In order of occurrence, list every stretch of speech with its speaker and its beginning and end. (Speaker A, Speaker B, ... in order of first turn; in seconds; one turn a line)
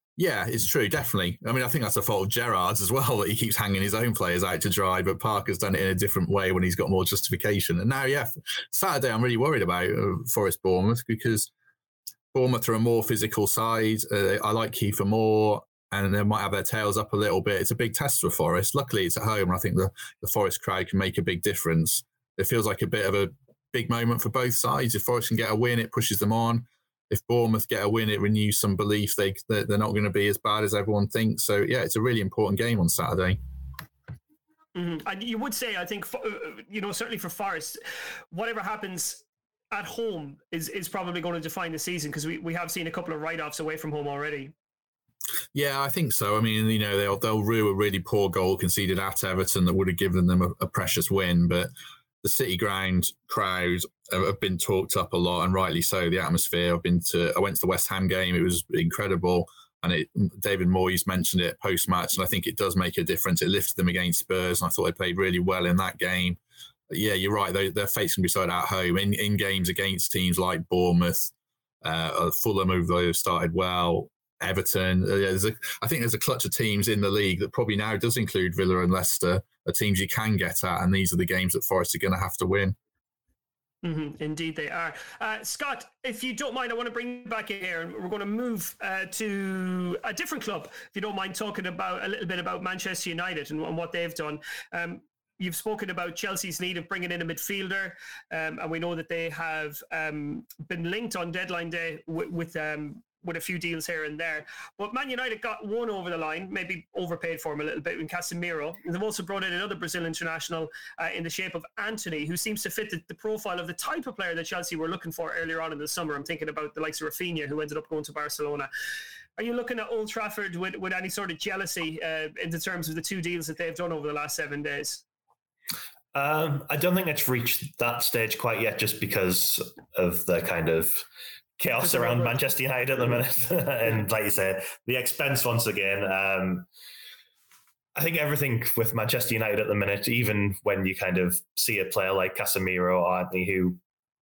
Speaker A: 0.2-11.5
Speaker A: 12.3-33.4
Speaker B: 34.7-37.8
Speaker B: 38.3-44.5
Speaker A: 45.5-51.7
Speaker A: 52.2-71.3
Speaker A: 71.8-82.8
Speaker B: 83.8-118.7
Speaker B: 119.4-125.0
Speaker C: 126.1-131.1
Speaker C: 131.6-136.7
Speaker B: 131.8-132.4
Speaker C: 138.0-143.8